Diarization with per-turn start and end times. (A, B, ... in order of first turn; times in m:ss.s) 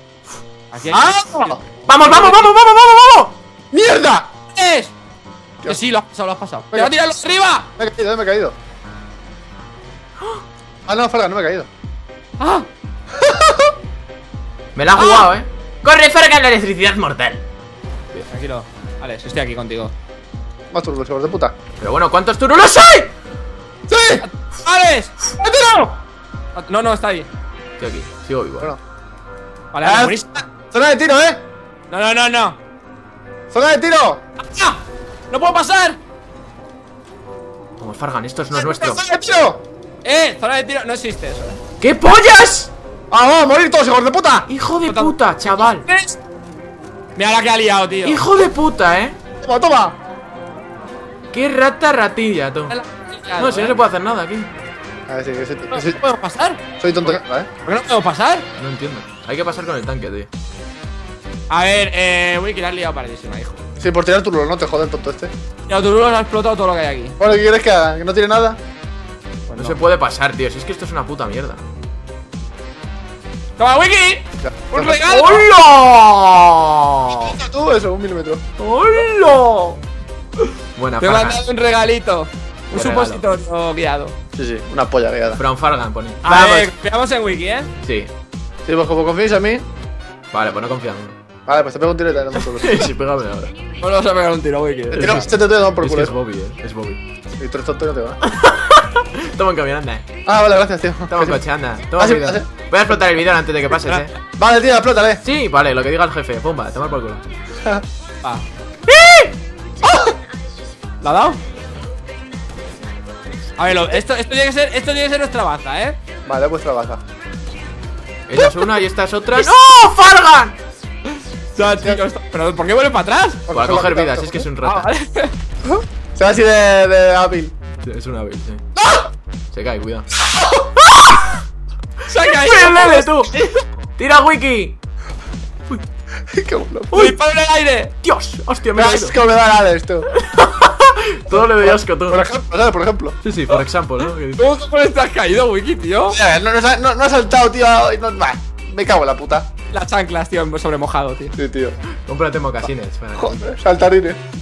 0:00.7-0:02.3 A
0:00.9-0:01.6 B
0:01.9-0:03.3 C
0:03.7-0:04.3 B
0:04.5-0:04.9 A
0:05.6-0:07.7 A
0:07.8-0:08.5 B
0:10.8-0:11.7 B
0:12.4-0:12.7 A
0:13.2-0:13.7 B
0:14.7-0:17.4 C
0:14.9-0:15.3 A
0:18.3-0:19.9 A
0:20.7-0:21.5 B
0:21.8-0:23.1 C
0:23.9-0:24.2 B
0:24.2-0:25.1 A
0:25.4-0:26.0 B
0:26.5-0:27.3 A
0:27.8-0:28.7 C
0:29.7-0:30.4 A
0:29.8-0:31.4 B
0:31.9-0:32.6 A
0:33.5-0:34.2 B
0:34.4-0:36.0 A
0:37.8-0:39.0 C
0:38.5-0:39.6 B
0:40.0-0:41.6 A
0:41.8-0:42.7 C
0:43.1-0:44.5 B
0:44.5-0:45.8 C
0:44.8-0:46.2 A
0:47.2-0:48.2 A
0:48.0-0:49.2 C
0:49.4-0:49.9 B
0:51.3-0:52.7 C
0:52.7-0:53.8 A
0:53.4-0:54.5 C
0:55.1-0:56.0 B
0:55.7-0:57.1 A
0:56.8-0:57.5 B
0:57.6-0:58.4 A
0:58.6-1:00.3 C
1:01.5-1:03.6 A
1:03.8-1:05.3 B
1:05.7-1:07.2 A
1:07.2-1:08.6 B
1:09.5-1:09.8 A
1:09.6-1:11.6 C
1:13.6-1:15.5 A
1:14.4-1:15.0 B
1:14.9-1:17.4 C
1:17.2-1:18.4 B
1:18.6-1:19.8 C
1:20.8-1:21.4 C
1:21.0-1:24.1 A
1:22.7-1:23.2 C
1:24.4-1:25.4 B
1:25.4-1:26.7 C
1:26.2-1:27.7 A
1:27.8-1:28.1 C
1:28.6-1:29.6 B
1:30.3-1:31.1 C
1:31.4-1:32.9 B
1:32.3-1:33.5 C
1:33.8-1:35.3 A
1:34.9-1:37.0 C
1:35.0-1:36.1 B
1:37.4-1:38.2 B
1:38.3-1:40.0 C
1:40.2-1:41.4 B
1:41.1-1:44.1 C
1:42.0-1:42.4 B
1:44.3-1:45.2 B
1:45.2-1:47.2 C
1:48.9-1:49.3 C
1:51.0-1:51.4 A
1:53.6-1:56.0 A
1:56.2-1:57.0 B
1:58.3-2:00.6 C
2:01.5-2:03.4 A
2:03.5-2:04.4 B
2:03.5-2:04.9 C
2:04.6-2:05.3 A
2:05.7-2:07.5 B
2:07.8-2:08.6 C
2:08.8-2:09.0 B
2:09.5-2:10.1 C
2:10.3-2:10.6 B
2:11.0-2:11.4 C
2:12.0-2:13.6 A
2:12.2-2:13.3 C
2:14.0-2:14.8 C
2:16.3-2:17.1 B
2:16.9-2:17.9 A
2:18.0-2:19.2 C
2:18.7-2:20.1 B
2:20.1-2:22.2 C
2:21.3-2:23.2 B
2:23.2-2:24.5 C
2:24.4-2:26.2 A
2:26.1-2:29.4 B
2:29.7-2:31.3 A
2:31.4-2:31.8 B
2:32.0-2:33.4 C
2:33.1-2:34.2 B